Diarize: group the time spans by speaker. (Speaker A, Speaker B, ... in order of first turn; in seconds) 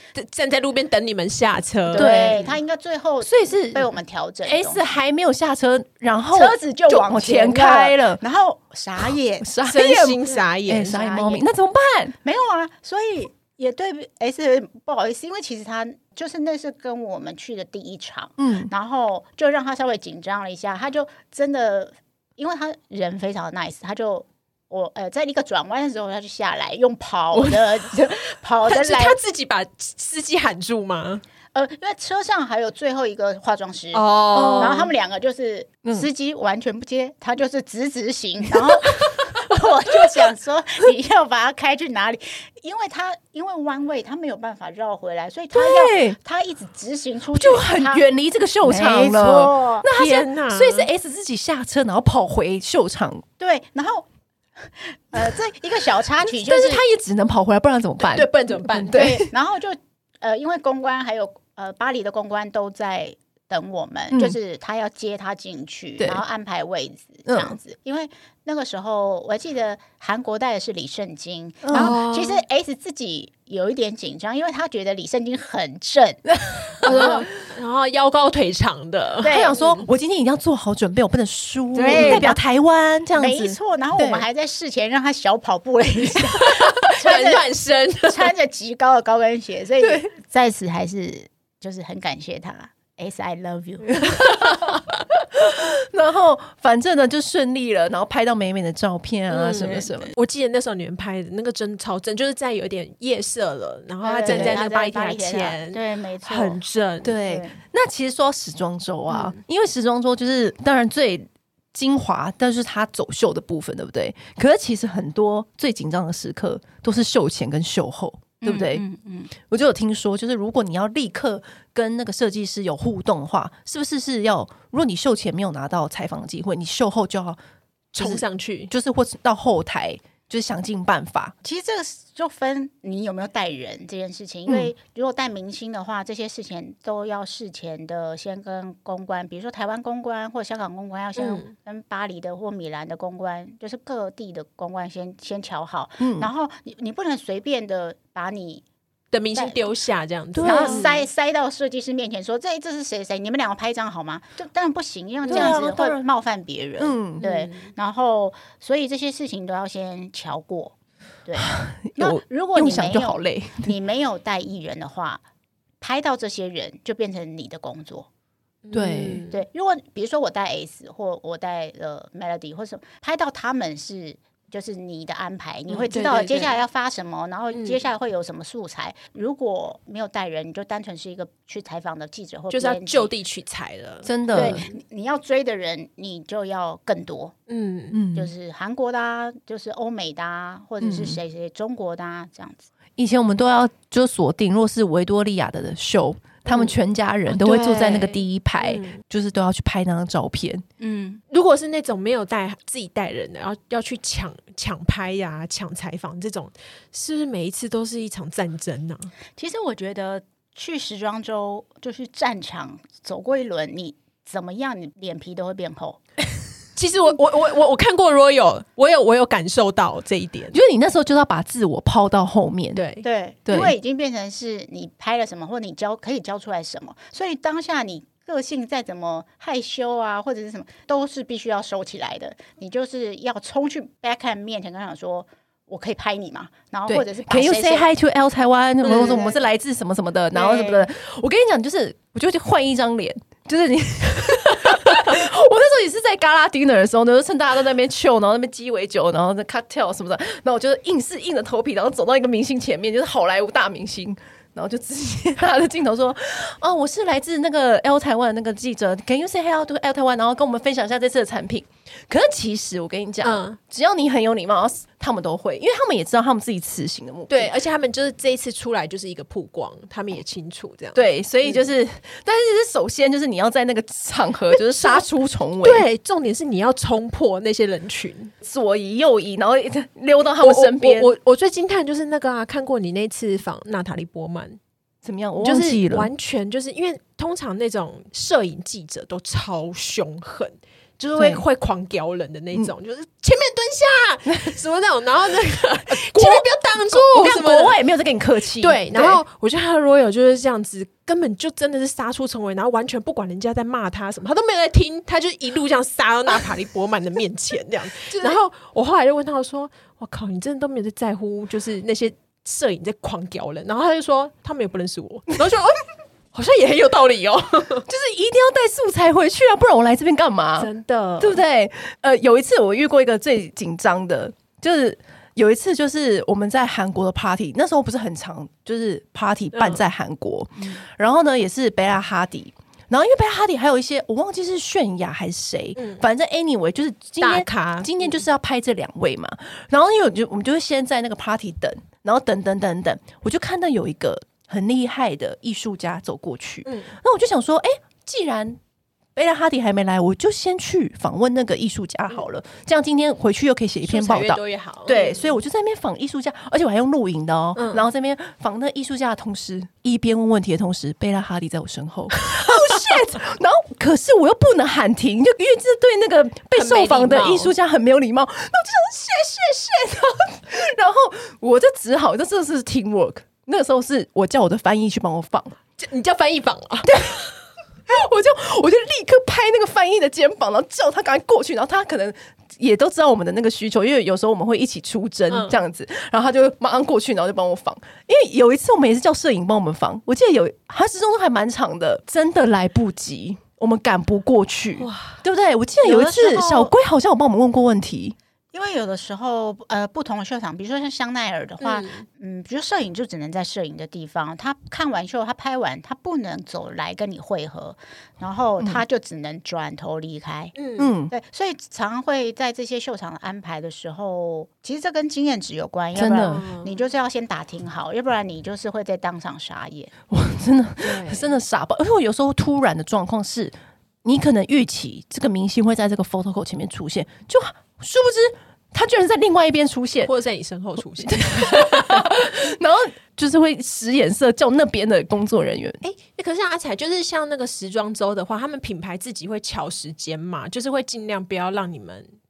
Speaker A: 0.1-2.5, 9.6-11.2, 28.6-31.2, 33.9-34.9, 49.9-50.9, 58.0-59.1, 71.7-72.4, 76.8-79.8, 81.8-82.3, 86.4-88.3, 99.3-107.2, 109.1-109.4, 127.9-128.7, 141.2-141.5, 149.1-151.0, 155.3-155.7, 157.2-157.7, 168.6-169.4, 175.7-176.6, 177.5-177.8, 182.5-184.8, 187.5-188.0, 196.5-196.8, 197.3-199.0, 201.3-209.1, 216.8-220.6, 222.7-223.1, 238.8-239.3, 263.2-263.6, 267.3-271.6, 274.5-275.0, 275.6-278.3, 280.4-284.6, 285.4-297.8, 298.6-317.9, 320.6-321.4, 329.5-329.8, 335.8-336.0, 337.2-338.2, 346.6-347.0, 353.8-355.3, 357.6-357.9, 362.2-362.9, 366.5-367.5, 375.8-377.1, 385.3-385.6, 394.8-395.2, 401.6-402.1, 410.5-410.9, 416.2-416.9, 420.8-421.4, 430.0-432.3, 435.8-442.1
Speaker B: 1.9-4.8, 6.3-9.5, 10.9-11.4, 12.2-29.2, 31.5-48.0, 48.6-49.9, 53.4-54.1, 54.6-56.8, 58.9-77.3, 79.2-79.6, 81.7-82.4, 83.2-87.5, 88.0-94.4, 104.0-106.6, 107.2-107.5, 118.4-119.3, 131.4-148.6, 149.3-149.6, 150.4-160.7, 161.2-165.2, 165.8-168.1, 169.3-183.1, 184.3-187.3, 188.1-192.7, 200.8-201.2, 209.4-216.0, 223.0-237.9, 238.8-239.4, 240.3-240.9, 395.8-396.7, 398.5-410.5, 411.1-419.9
Speaker C: 1.9-2.4, 3.2-8.2, 9.4-12.2, 18.4-18.7, 34.3-34.9, 45.5-46.2, 47.3-53.2, 56.2-59.3, 64.1-64.3, 66.0-66.2, 67.2-67.6, 71.6-72.0, 76.4-77.2, 79.2-84.2, 89.8-90.1, 94.0-100.1, 104.2-104.6, 107.0-118.8, 119.4-127.4, 128.0-131.3, 146.0-146.3, 150.3-150.9, 155.3-156.0, 156.8-157.2, 161.4-163.7, 168.7-169.2, 184.0-184.6, 187.9-188.3, 190.8-191.2, 193.0-200.6, 220.5-222.8, 223.5-223.7, 236.9-267.5, 270.9-275.9, 278.4-281.1, 285.0-286.1, 291.1-291.4, 295.9-299.2, 308.1-308.4, 317.9-348.6, 349.1-375.5, 376.9-377.2, 377.9-398.1, 410.8-411.1, 415.9-416.4, 420.1-423.5, 424.0-430.1, 431.0-435.8